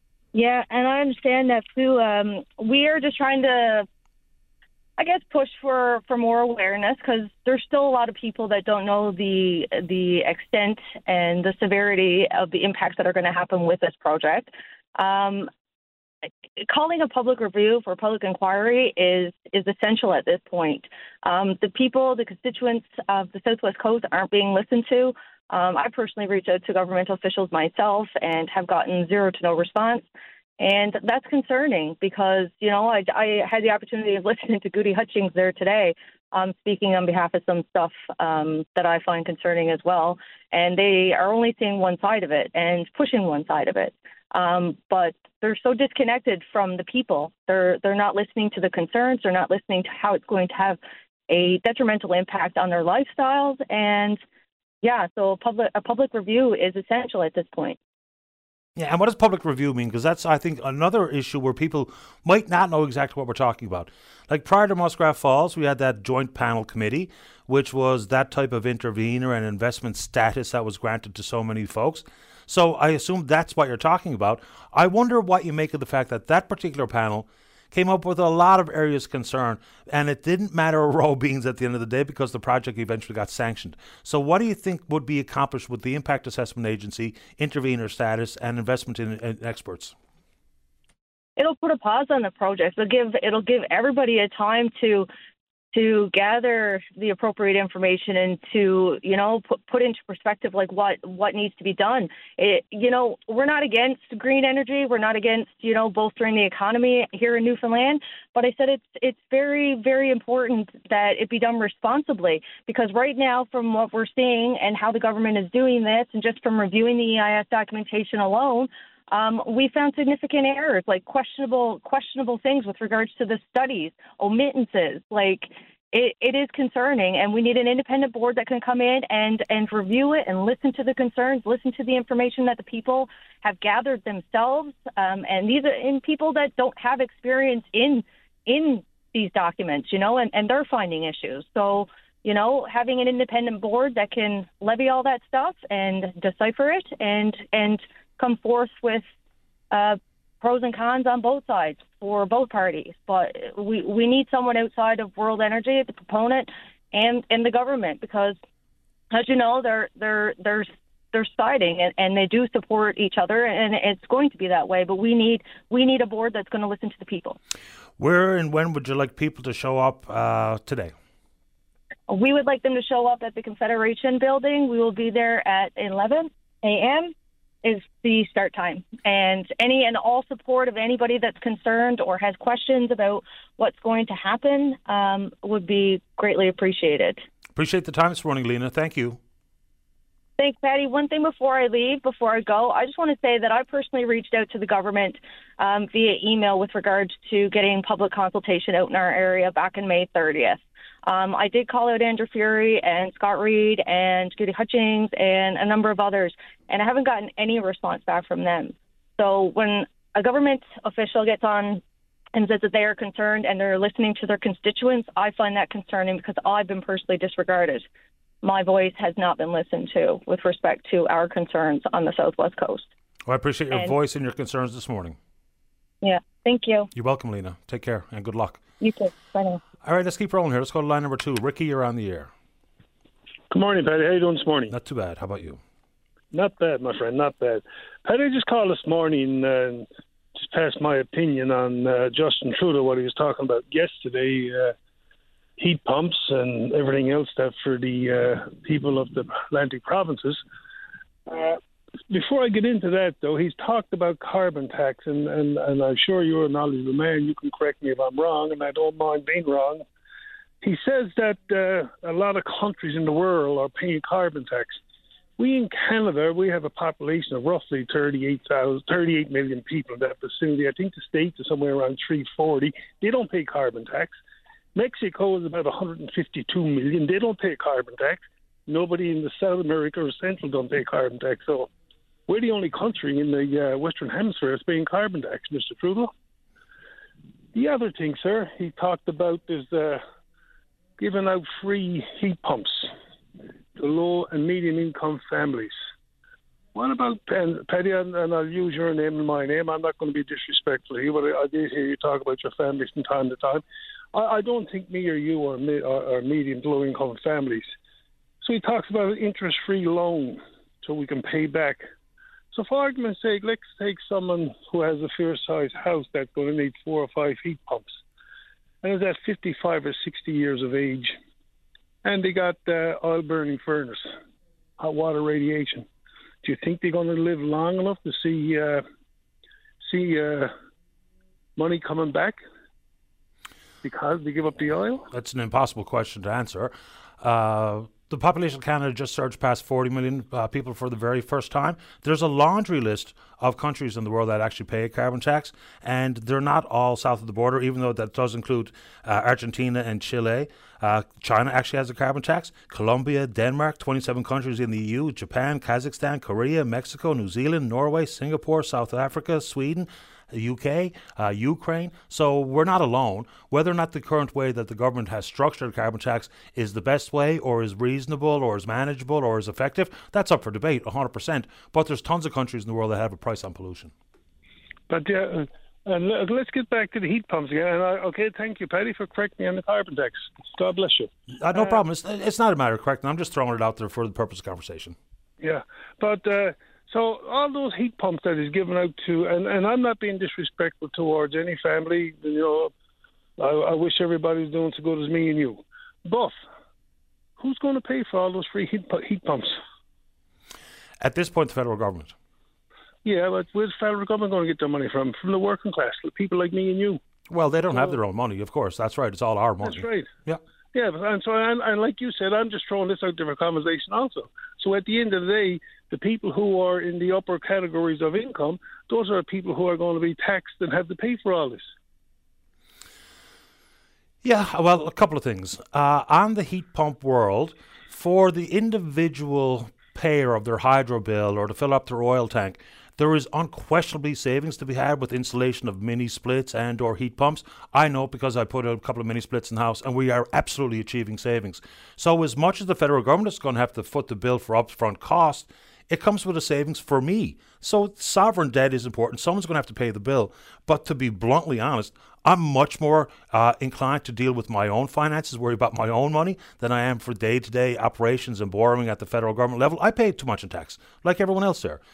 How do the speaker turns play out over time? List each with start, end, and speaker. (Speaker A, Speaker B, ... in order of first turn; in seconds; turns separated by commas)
Speaker A: 0.3-3.9, Speaker A: 5.0-15.5, Speaker A: 16.6-30.1, Speaker A: 30.6-54.2, Speaker A: 54.8-57.8, Speaker B: 58.8-89.9, Speaker A: 91.4-95.1, Speaker A: 95.7-149.1, Speaker A: 149.7-158.4, Speaker A: 159.1-167.4, Speaker B: 168.0-170.9, Speaker A: 172.1-187.2, Speaker B: 187.6-189.2, Speaker A: 190.4-211.8, Speaker A: 212.3-217.8, Speaker A: 218.4-222.9, Speaker B: 223.3-225.2, Speaker A: 226.0-226.9, Speaker B: 226.9-228.6, Speaker A: 228.8-229.6, Speaker B: 229.8-232.3, Speaker C: 233.5-234.8, Speaker B: 234.7-235.6, Speaker C: 236.3-244.7, Speaker C: 245.6-250.4, Speaker C: 251.3-251.6, Speaker C: 252.1-259.8, Speaker C: 260.6-264.8, Speaker C: 265.4-274.2, Speaker C: 274.8-281.7, Speaker C: 282.3-286.1, Speaker C: 287.5-290.0, Speaker C: 291.0-292.9, Speaker C: 293.8-295.8, Speaker C: 296.8-303.6, Speaker C: 304.1-307.7, Speaker C: 308.4-311.9, Speaker C: 312.5-318.0, Speaker C: 318.8-321.2, Speaker C: 322.0-324.1, Speaker C: 324.8-325.9, Speaker C: 326.4-328.9, Speaker C: 329.8-330.5, Speaker C: 331.6-332.4, Speaker C: 333.8-335.1, Speaker B: 335.1-373.9, Speaker C: 374.9-381.8, Speaker B: 381.4-385.0, Speaker C: 385.4-392.7, Speaker C: 393.4-396.4, Speaker C: 397.4-399.6, Speaker B: 401.0-402.1, Speaker C: 403.1-407.0, Speaker B: 407.3-410.4, Speaker C: 409.6-410.1, Speaker C: 410.7-421.7, Speaker B: 424.2-461.8